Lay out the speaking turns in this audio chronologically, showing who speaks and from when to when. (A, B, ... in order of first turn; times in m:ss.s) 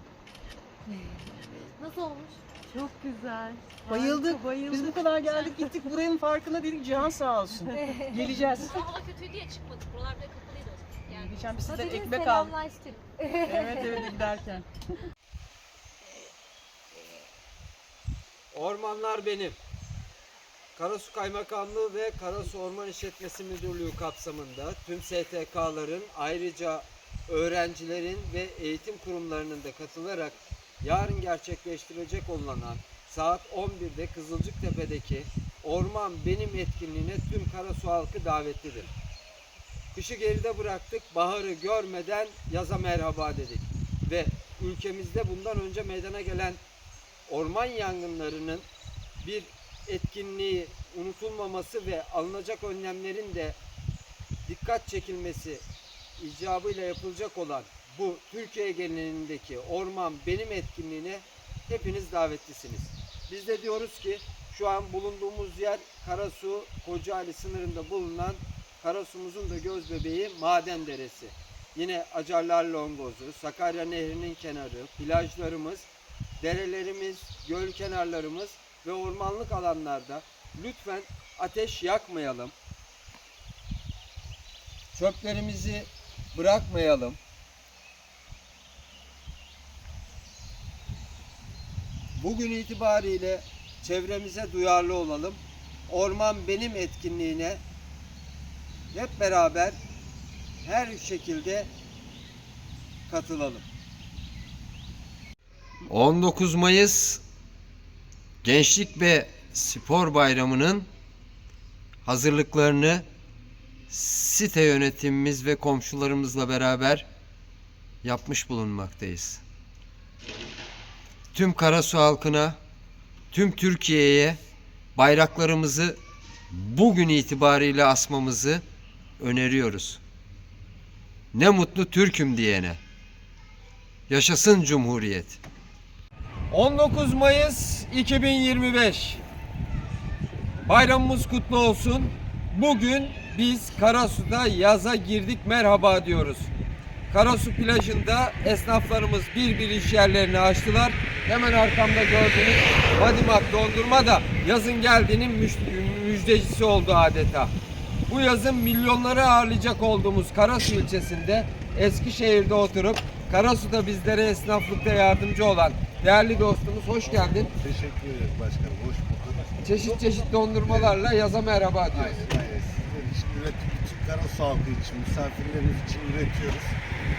0:01.8-0:02.4 A
0:02.7-0:09.0 B
0:08.8-0:11.3 C
0:11.1-0:12.6 B
0:11.7-0:14.0 A
0:13.4-0:14.6 B
0:18.5-0:19.6 D
0:20.7-0:38.9 D
0:39.9-0:46.6 D
0:47.3-0:48.6 D
0:49.2-0:53.6 D
0:54.4-0:55.6 D
0:56.2-1:15.9 D
1:16.4-1:22.5 D
1:24.9-1:27.2 D
1:32.1-1:37.6 D
1:38.9-1:39.8 D
1:40.6-1:41.7 D
1:43.1-1:43.6 D
1:45.9-1:47.2 D
1:48.4-1:50.9 D
1:52.0-1:53.0 D
1:53.9-1:57.0 D
1:58.0-1:59.4 D
2:01.3-2:02.6 D
2:03.3-2:04.4 D
2:05.0-2:06.0 D
2:06.5-2:08.6 D
2:09.2-2:10.0 D
2:11.3-2:12.8 D
2:14.1-2:15.4 D
2:16.5-2:19.2 D
2:20.6-2:26.5 D
2:27.1-2:37.5 D
2:38.1-2:47.5 D
2:47.5-2:49.6 E
2:49.6-2:52.3 D
2:50.6-2:50.9 E
2:51.9-2:56.8 E